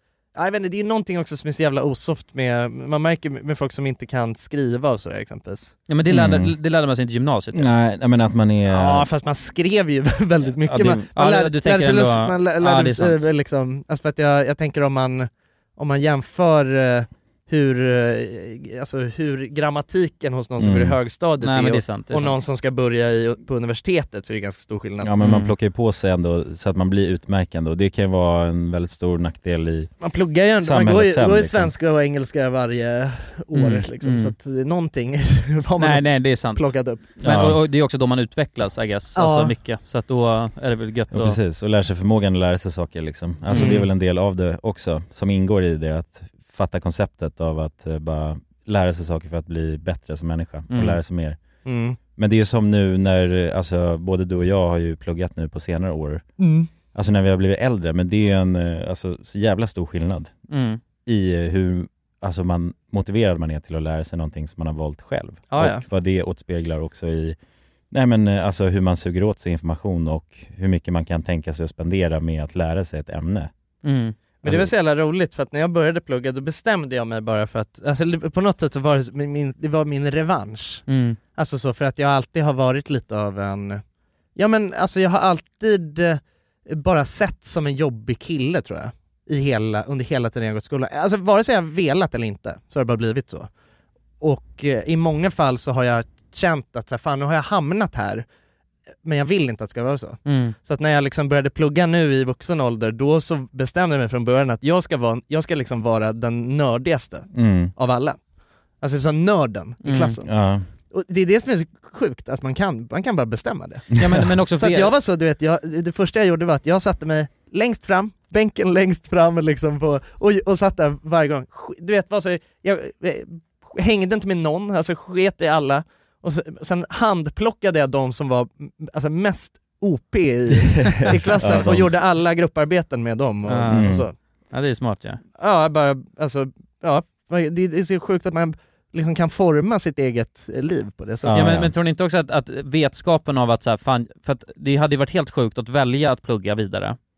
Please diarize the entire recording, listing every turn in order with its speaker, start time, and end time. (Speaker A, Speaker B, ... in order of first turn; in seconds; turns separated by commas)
Speaker A: 0.3-5.7, Speaker B: 5.9-7.7, Speaker C: 6.1-6.5, Speaker C: 7.5-9.1, Speaker A: 8.7-25.2, Speaker C: 10.7-11.1, Speaker B: 11.1-13.2, Speaker C: 20.6-21.0, Speaker B: 21.4-22.4, Speaker C: 25.0-29.9, Speaker B: 25.2-25.5, Speaker A: 30.0-37.0, Speaker C: 30.6-31.7, Speaker B: 33.5-34.3, Speaker B: 35.8-41.4, Speaker C: 37.2-37.6, Speaker A: 39.1-39.5, Speaker C: 41.1-51.4, Speaker B: 43.5-43.8, Speaker A: 43.5-43.9, Speaker B: 50.7-51.0, Speaker A: 51.6-52.0, Speaker C: 52.2-56.2, Speaker A: 56.4-56.7, Speaker C: 56.9-60.3, Speaker B: 60.5-60.8, Speaker C: 61.0-67.4, Speaker A: 65.5-65.8, Speaker C: 67.9-73.5, Speaker B: 73.8-74.1, Speaker A: 74.4-80.8, Speaker C: 74.4-74.7, Speaker B: 80.9-81.2, Speaker A: 81.3-83.8, Speaker A: 84.3-93.5, Speaker A: 94.2-98.2, Speaker A: 99.0-108.2, Speaker B: 100.2-100.5, Speaker C: 107.3-107.7, Speaker A: 108.8-110.3, Speaker B: 109.8-110.2, Speaker C: 110.2-110.7, Speaker A: 110.9-114.0, Speaker B: 114.0-114.9, Speaker A: 114.6-134.1, Speaker C: 130.7-131.9, Speaker B: 133.5-133.9, Speaker C: 133.7-134.1, Speaker B: 134.5-135.2, Speaker A: 135.4-141.5, Speaker C: 141.2-141.7, Speaker B: 141.3-147.0